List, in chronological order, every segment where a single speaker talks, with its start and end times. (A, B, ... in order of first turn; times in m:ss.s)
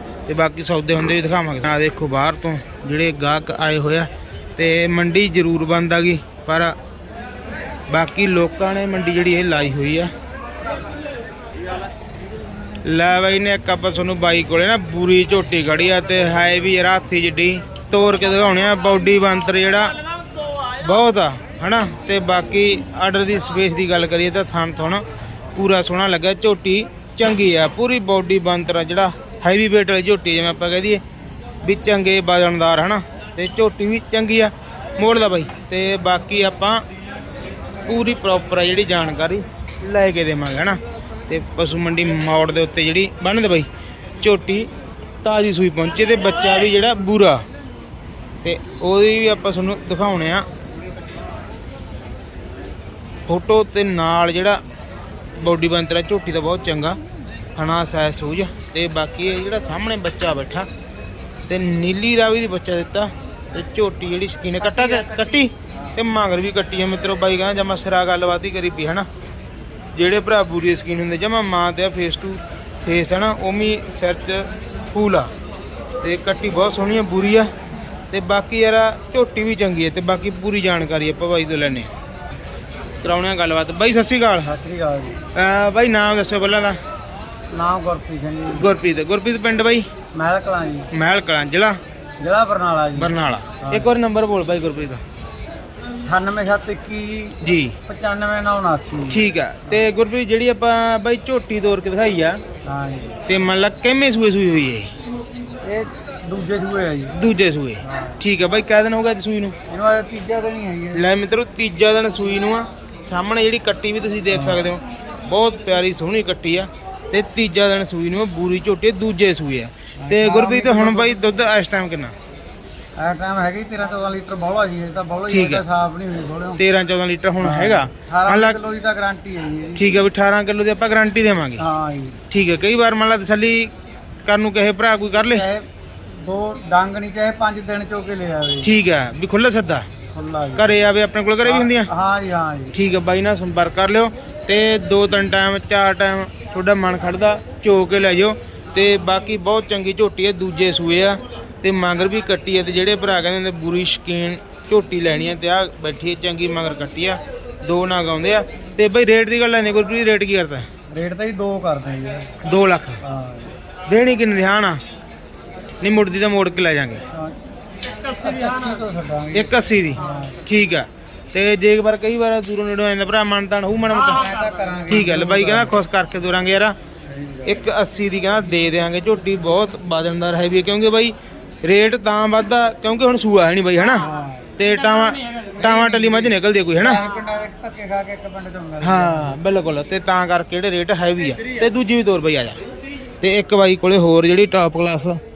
0:00.3-0:06.7 A
0:07.9-0:10.1 A
0:12.8-0:20.0 A
0:20.8-0:25.0 A
0:25.6-0:31.0 A
0:31.6-0:36.8 A
0:37.9-0:43.7 A
0:44.2-0:44.7 A
0:45.2-0:47.4 A
0:48.4-0:50.4 A
0:53.3-0:54.6 A
0:55.4-0:57.0 A
0:57.5-1:00.7 A
1:01.5-1:09.1 A
1:10.0-1:15.3 A
1:16.0-1:17.5 A
1:18.1-1:21.9 A
1:23.0-1:24.5 A
1:24.4-1:25.2 B
1:25.3-1:26.8 A
1:27.5-1:28.7 B
1:28.5-1:29.9 A
1:30.1-1:30.9 B
1:30.9-1:31.8 A
1:32.2-1:34.0 B
1:33.0-1:35.0 A
1:36.0-1:39.8 B
1:37.4-1:37.8 A
1:39.1-1:42.4 A
1:42.6-1:43.2 B
1:43.3-1:44.9 A
1:45.6-1:47.2 B
1:47.1-1:49.6 A
1:47.8-1:48.2 B
1:49.7-1:51.0 B
1:50.9-2:02.1 A
1:54.3-1:54.7 B
2:00.0-2:01.3 B
2:03.0-2:06.6 B
2:05.3-2:05.6 A
2:06.6-2:08.6 A
2:07.4-2:10.0 B
2:09.8-2:11.6 A
2:11.6-2:12.2 B
2:12.3-2:13.7 A
2:14.2-2:15.4 A
2:15.2-2:18.8 B
2:18.6-2:19.9 A
2:20.1-2:20.8 B
2:20.6-2:21.9 A
2:21.4-2:22.8 B
2:22.7-2:40.7 A
2:40.9-2:42.3 B
2:42.4-2:43.0 A
2:43.0-2:43.5 B
2:43.9-2:44.8 A
2:45.8-2:47.0 A
2:48.0-2:50.4 B
2:49.3-2:54.3 A
2:54.1-2:55.8 B
2:54.9-2:56.8 A
2:57.1-2:57.7 B
2:57.4-3:07.0 A
3:04.0-3:04.5 B
3:06.7-3:09.4 B
3:08.8-3:12.6 A
3:13.2-3:15.2 A